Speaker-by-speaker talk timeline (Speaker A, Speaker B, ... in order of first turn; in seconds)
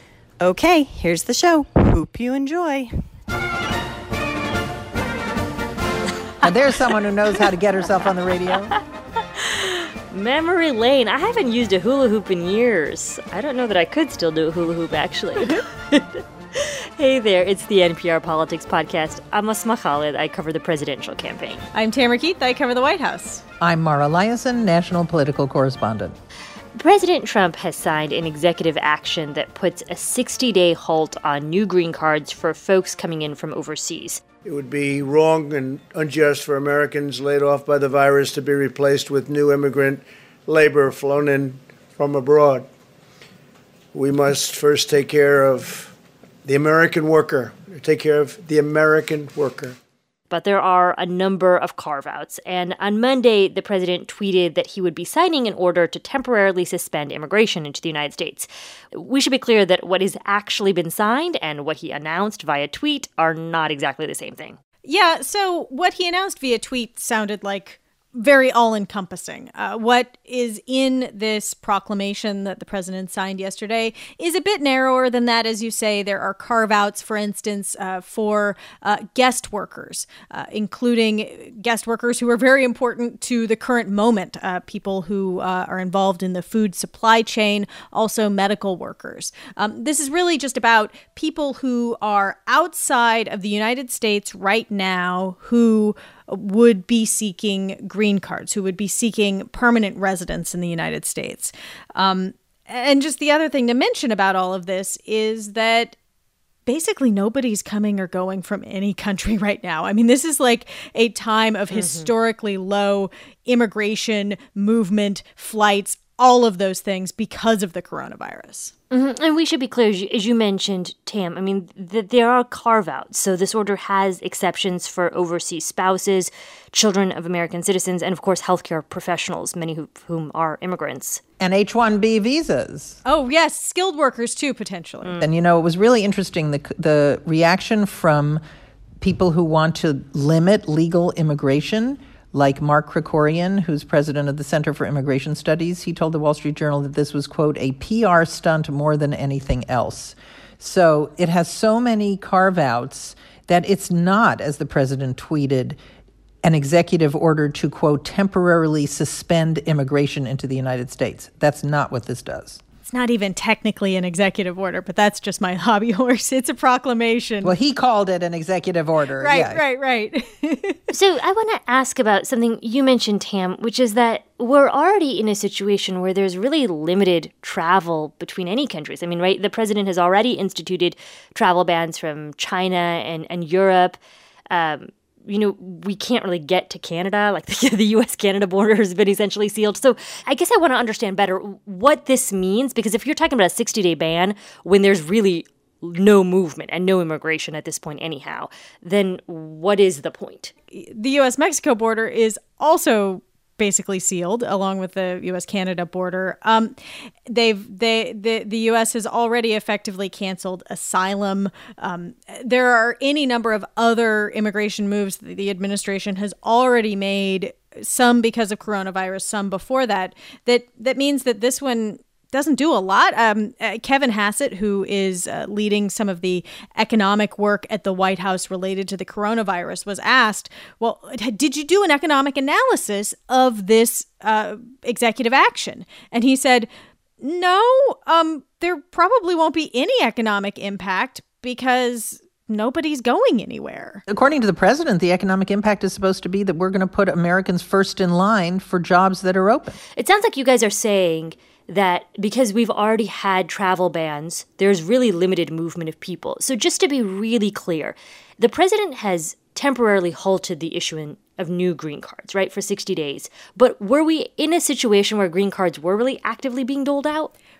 Speaker A: 0.4-2.9
Speaker B: 6.4-8.7, 23.6-26.1, 131.4-133.0, 135.2-138.4, 139.0-155.8, 156.4-162.6, 167.4-169.6, 244.1-249.8
Speaker C: 9.5-21.6, 26.8-34.2, 50.3-64.6, 111.7-112.1, 118.9-131.2, 135.0-135.3, 170.9-184.0, 184.5-200.5, 249.9-267.3
Speaker D: 21.7-23.4, 64.8-105.9, 106.7-118.7, 133.1-135.2, 162.8-167.5, 169.2-170.8, 200.7-236.7, 237.2-244.0
Speaker E: 34.4-42.7, 43.9-49.8